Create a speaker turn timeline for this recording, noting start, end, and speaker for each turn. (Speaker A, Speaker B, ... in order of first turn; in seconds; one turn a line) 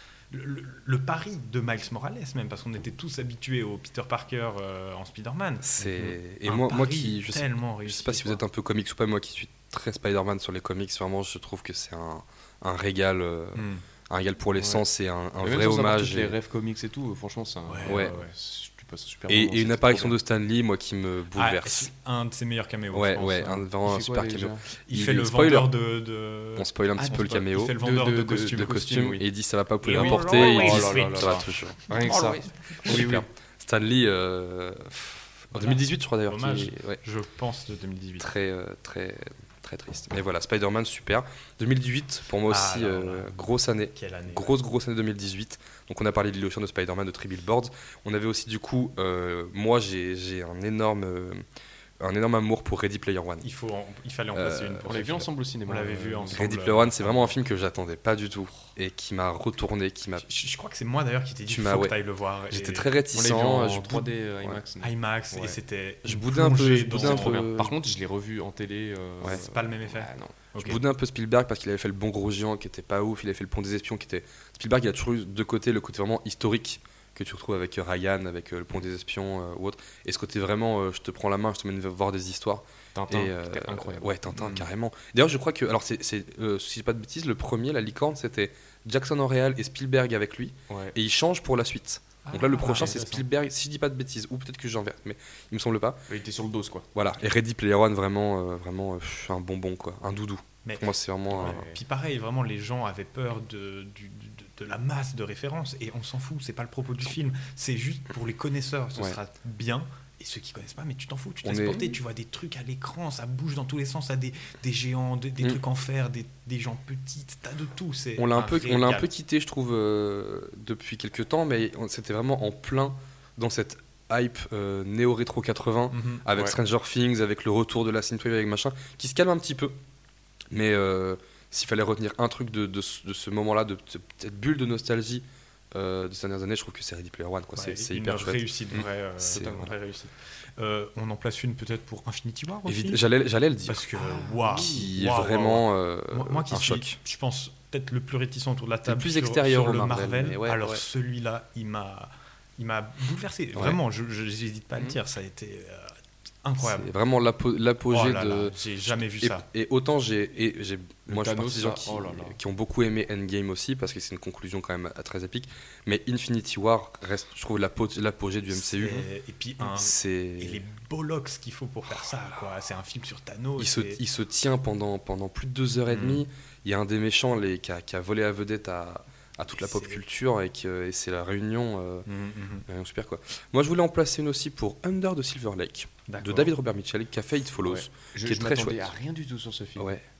Speaker A: 0.3-8.4
Speaker B: 5.6-16.3
Speaker A: 13.5-13.8
Speaker C: 14.6-14.8
Speaker C: 15.4-20.2
Speaker A: 17.7-18.3
Speaker B: 17.9-18.1
Speaker B: 19.3-21.9
Speaker A: 21.3-23.7
Speaker B: 22.9-25.7
Speaker C: 23.8-24.6
Speaker A: 24.9-28.8
Speaker B: 26.6-27.8
Speaker C: 27.0-29.2
Speaker B: 28.5-31.9
Speaker A: 29.8-33.0
Speaker C: 29.9-33.2
Speaker B: 32.8-37.0
Speaker A: 35.5-38.3
Speaker B: 38.2-51.4
Speaker A: 42.5-44.6
Speaker B: 52.0-53.5
Speaker A: 53.4-57.3
Speaker B: 54.3-54.9
Speaker C: 54.8-56.5
Speaker B: 56.3-60.2
Speaker A: 60.2-62.9
Speaker B: 61.5-62.0
Speaker B: 62.5-64.6
Speaker C: 63.1-65.6
Speaker A: 64.8-67.5
Speaker B: 66.0-67.7
Speaker C: 67.0-70.4
Speaker A: 69.2-70.8
Speaker B: 70.6-96.1
Speaker C: 82.9-84.7
Speaker C: 90.7-91.0
Speaker A: 92.2-93.2
Speaker C: 92.7-93.0
Speaker C: 96.1-96.9
Speaker B: 96.9-101.6
Speaker A: 100.6-119.1
Speaker C: 101.3-101.8
Speaker B: 111.4-111.9
Speaker B: 118.2-129.8
Speaker A: 125.9-126.2
Speaker B: 130.5-139.7
Speaker A: 137.5-143.1
Speaker B: 142.7-143.9
Speaker A: 143.7-156.9
Speaker C: 143.9-144.9
Speaker B: 144.5-146.9
Speaker B: 148.8-150.8
Speaker B: 153.5-153.8
Speaker B: 156.6-169.1
Speaker A: 157.9-159.4
Speaker C: 161.1-162.4
Speaker A: 168.5-174.0
Speaker B: 169.6-170.6
Speaker B: 173.6-182.1
Speaker A: 175.9-176.2
Speaker A: 179.6-180.0
Speaker A: 182.1-182.7
Speaker B: 182.7-188.9
Speaker A: 186.1-186.5
Speaker C: 187.6-190.0
Speaker B: 189.8-190.0